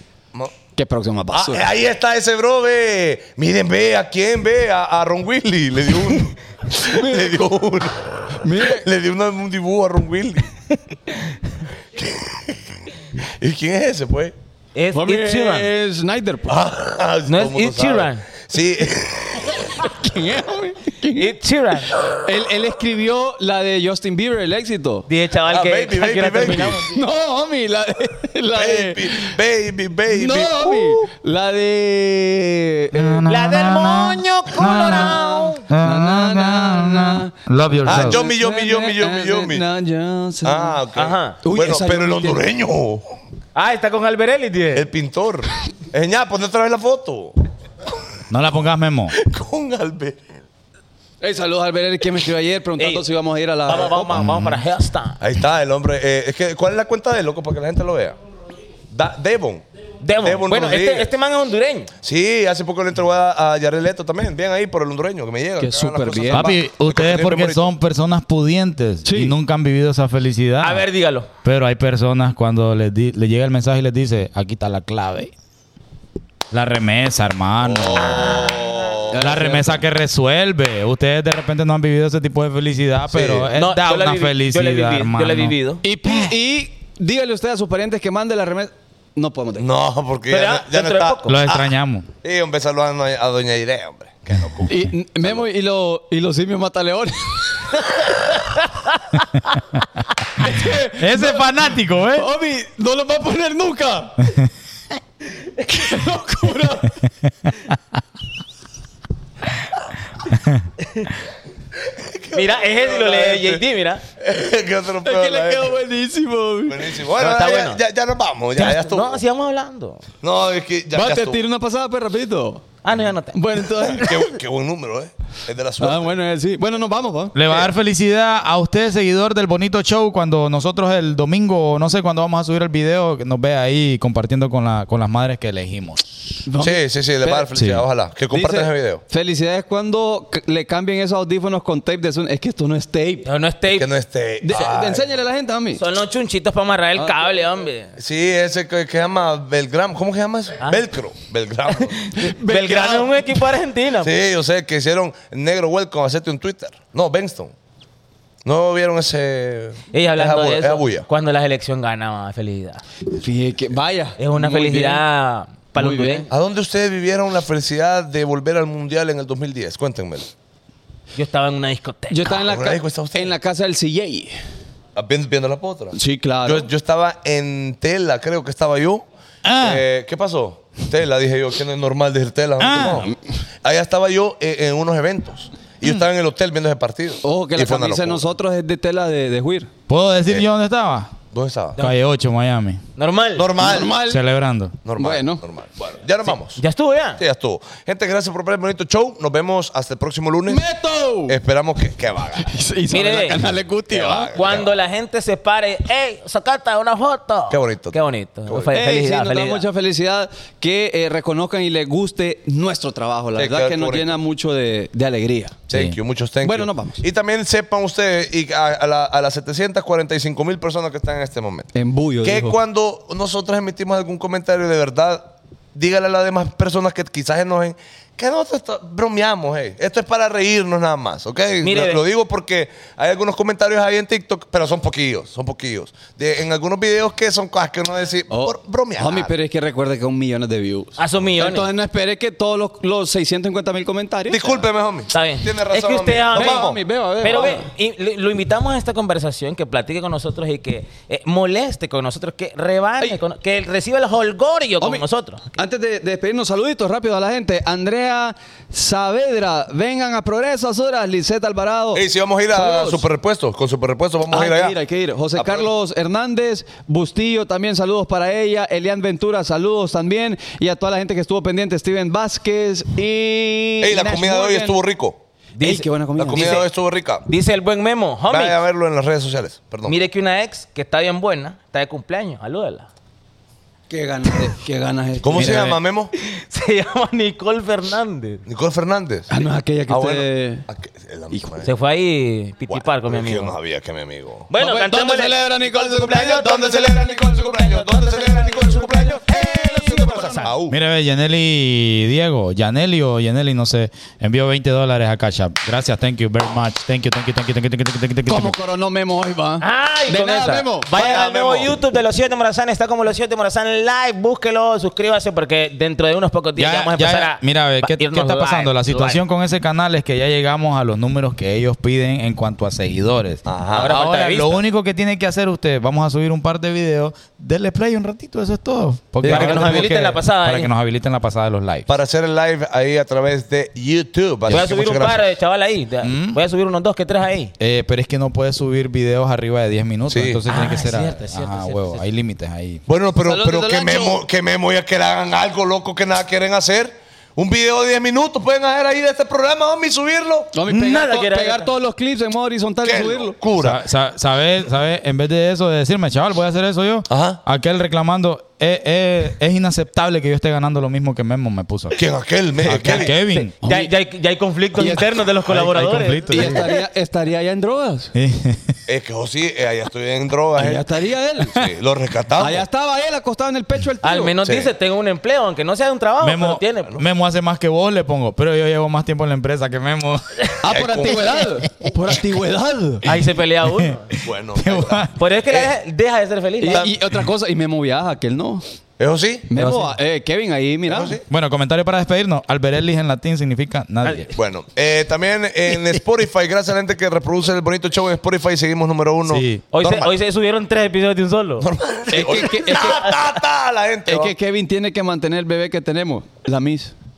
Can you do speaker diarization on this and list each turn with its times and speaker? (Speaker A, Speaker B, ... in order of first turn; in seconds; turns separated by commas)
Speaker A: 0.8-1.7, Speaker B: 1.3-10.6, Speaker A: 6.8-7.4, Speaker A: 8.4-8.8, Speaker B: 11.9-14.3, Speaker C: 14.8-15.7, Speaker A: 14.9-16.6, Speaker B: 16.5-19.9, Speaker C: 17.3-18.3, Speaker A: 19.7-21.3, Speaker C: 21.2-22.0, Speaker A: 22.2-25.1, Speaker C: 25.1-27.0, Speaker B: 25.5-26.8, Speaker A: 26.8-29.4, Speaker B: 28.5-31.0, Speaker A: 30.1-33.3, Speaker D: 32.9-38.2, Speaker C: 33.3-35.6, Speaker A: 34.8-40.8, Speaker B: 37.9-39.7, Speaker B: 40.4-43.1, Speaker C: 41.0-41.4, Speaker A: 41.4-42.4, Speaker C: 43.5-44.9, Speaker B: 44.7-47.4, Speaker D: 48.3-49.2, Speaker B: 49.2-50.3, Speaker A: 51.2-54.2, Speaker C: 52.8-53.1, Speaker C: 53.7-55.2, Speaker D: 54.1-54.6, Speaker B: 55.2-58.2, Speaker B: 58.9-59.6, Speaker C: 60.0-61.9, Speaker B: 60.2-61.1, Speaker B: 62.0-67.8, Speaker A: 65.6-66.5, Speaker D: 66.3-70.9, Speaker A: 69.0-69.3, Speaker C: 70.6-71.3, Speaker D: 71.4-75.3, Speaker D: 76.5-78.4, Speaker B: 77.6-79.5, Speaker A: 79.1-79.8, Speaker D: 79.2-85.5, Speaker B: 83.1-83.5, Speaker C: 83.5-85.8, Speaker A: 85.8-89.7, Speaker D: 86.1-86.3, Speaker B: 89.6-95.4, Speaker C: 90.3-91.4, Speaker D: 91.3-92.1, Speaker A: 94.7-97.8, Speaker C: 98.2-99.0, Speaker A: 100.4-101.6, Speaker D: 100.4-102.3, Speaker A: 102.1-104.4, Speaker A: 105.7-107.0, Speaker D: 110.4-110.7, Speaker C: 110.8-111.1, Speaker B: 111.8-113.6, Speaker C: 112.3-114.0, Speaker B: 114.2-115.8, Speaker A: 115.0-116.9, Speaker B: 116.7-119.2, Speaker C: 117.2-117.8, Speaker C: 118.6-120.0, Speaker B: 120.2-121.4, Speaker A: 120.9-122.6, Speaker C: 122.8-124.2, Speaker A: 123.3-124.2, Speaker B: 123.8-126.2, Speaker A: 125.8-127.4, Speaker D: 127.3-136.2, Speaker A: 136.4-137.5, Speaker B: 136.6-139.0, Speaker D: 137.5-137.8, Speaker A: 138.3-143.3, Speaker C: 143.2-143.9, Speaker B: 143.7-145.1, Speaker A: 144.4-145.8, Speaker C: 145.8-147.9, Speaker B: 148.0-153.1, Speaker C: 151.7-154.1, Speaker A: 152.1-153.1, Speaker B: 154.0-157.5, Speaker B: 158.4-161.1, Speaker C: 159.9-162.8, Speaker A: 163.1-165.0, Speaker C: 164.2-166.3, Speaker A: 165.8-166.3, Speaker B: 166.3-170.3, Speaker C: 171.2-172.4, Speaker A: 172.1-174.4, Speaker B: 172.4-173.3, Speaker B: 174.9-179.1, Speaker A: 175.9-176.7, Speaker D: 179.4-179.8, Speaker B: 179.6-183.1, Speaker D: 182.6-183.1, Speaker A: 182.9-183.2, Speaker B: 183.6-188.3, Speaker A: 187.2-189.7, Speaker D: 189.9-191.1, Speaker B: 191.3-191.9, Speaker D: 191.8-192.8, Speaker C: 193.0-193.5, Speaker B: 193.3-194.0, Speaker A: 193.6-194.2, Speaker D: 194.1-194.8, Speaker B: 194.8-196.6, Speaker A: 195.0-195.4, Speaker C: 196.6-197.2, Speaker B: 197.2-200.6, Speaker A: 200.5-201.4, Speaker B: 201.3-202.5, Speaker A: 202.4-204.4, Speaker C: 202.9-203.4, Speaker B: 203.9-204.7, Speaker C: 204.3-209.6, Speaker B: 207.5-208.7, Speaker A: 208.7-215.7, Speaker B: 213.4-214.2, Speaker B: 215.7-239.3, Speaker A: 216.4-217.0, Speaker A: 221.8-222.6, Speaker C: 231.6-232.0, Speaker A: 238.3-244.7, Speaker C: 241.0-241.7, Speaker B: 244.3-246.8, Speaker C: 245.1-255.6, Speaker A: 246.3-247.7, Speaker A: 255.6-263.1, Speaker B: 261.9-264.8, Speaker A: 264.3-274.8, Speaker B: 265.4-265.7, Speaker B: 273.8-275.2, Speaker C: 275.6-276.7, Speaker A: 275.6-276.6, Speaker B: 276.2-277.3, Speaker C: 277.3-278.6, Speaker B: 278.3-280.0, Speaker C: 279.9-282.9, Speaker A: 283.9-285.7, Speaker B: 285.2-286.1, Speaker D: 285.3-285.8, Speaker C: 286.2-288.4, Speaker B: 288.5-289.3, Speaker A: 289.3-290.7, Speaker B: 289.9-291.7, Speaker C: 291.6-293.5, Speaker B: 292.7-294.5, Speaker C: 294.5-296.6, Speaker A: 294.6-300.5, Speaker B: 295.6-300.8, Speaker D: 300.7-308.6, Speaker A: 308.3-310.9, Speaker C: 309.6-319.2, Speaker B: 310.9-311.8, Speaker D: 316.6-331.9, Speaker B: 323.5-323.9, Speaker C: 323.7-324.6, Speaker A: 329.2-329.9, Speaker C: 329.2-330.7, Speaker B: 331.9-335.2, Speaker C: 334.5-337.5, Speaker D: 336.0-336.4, Speaker D: 337.6-342.8, Speaker B: 340.1-340.4, Speaker C: 340.5-342.0, Speaker B: 342.9-350.5, Speaker A: 343.2-344.2, Speaker A: 350.5-353.4, Speaker C: 350.7-351.7, Speaker B: 352.8-353.8, Speaker D: 353.6-362.0, Speaker B: 357.1-357.4, Speaker B: 361.9-363.1, Speaker D: 362.6-363.5, Speaker A: 363.3-363.9, Speaker C: 363.6-366.8, Speaker A: 364.8-365.1, Speaker D: 365.5-366.6, Speaker A: 366.3-368.1, Speaker D: 368.1-368.8, Speaker B: 368.9-372.6, Speaker A: 370.6-371.7, Speaker A: 372.4-374.4, Speaker C: 374.0-377.0, Speaker B: 374.4-374.7, Speaker D: 376.2-380.5, Speaker A: 380.6-383.1, Speaker B: 380.6-381.4, Speaker C: 383.1-384.1, Speaker D: 383.8-385.1, Speaker B: 384.2-385.7, Speaker C: 385.2-386.9, Speaker A: 386.6-388.6, Speaker B: 386.7-386.9, Speaker B: 389.0-389.6, Speaker A: 389.5-391.2, Speaker B: 390.9-391.3, Speaker D: 391.3-394.3, Speaker C: 394.0-394.3, Speaker B: 394.4-400.1, Speaker D: 399.3-399.6, Speaker C: 399.7-403.1, Speaker B: 401.6-404.3, Speaker A: 402.1-403.1, Speaker A: 404.1-406.9